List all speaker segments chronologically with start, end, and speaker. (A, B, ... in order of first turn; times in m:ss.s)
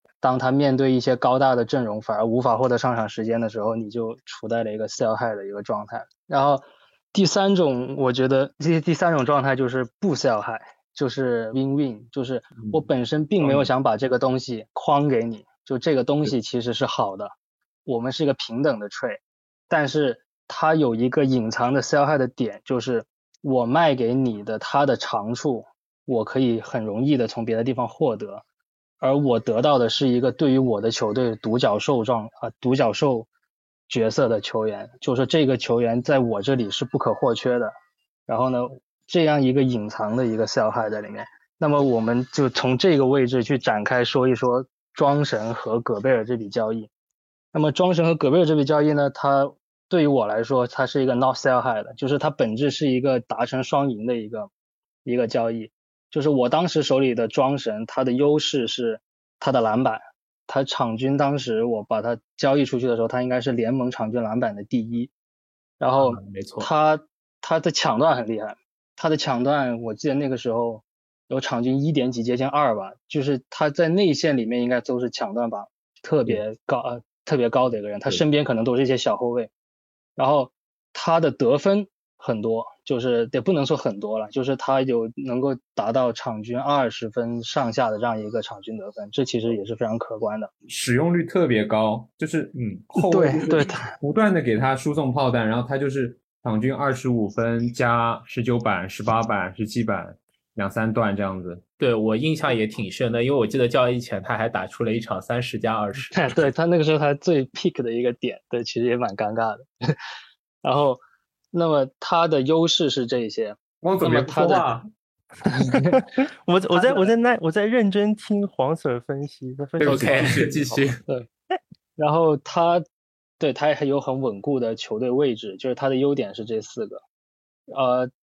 0:00.2-0:17.3 A
0:12.6-0:12.9 B
0:13.4-0:13.7 B
0:17.9-0:28.4 A
0:29.0-0:33.3 A
0:33.9-0:37.7 A
0:38.3-0:46.9 A
0:47.5-0:54.5 A
0:55.0-1:05.1 A
1:05.8-1:19.5 A
1:06.0-1:06.7 B
1:20.2-1:30.5 A
1:30.7-1:41.6 C
1:33.0-1:33.9 A
1:41.8-1:46.4 B
1:46.1-1:49.7 A
1:50.6-1:51.0 A
1:51.5-1:54.7 A
1:53.8-1:54.9 C
1:55.5-1:56.0 A
1:55.9-2:00.8 D
1:56.7-1:57.1 A
1:59.8-2:00.5 C
1:59.8-2:01.0 B
2:02.0-2:02.8 A
2:03.4-2:07.0 A
2:07.7-2:08.1 A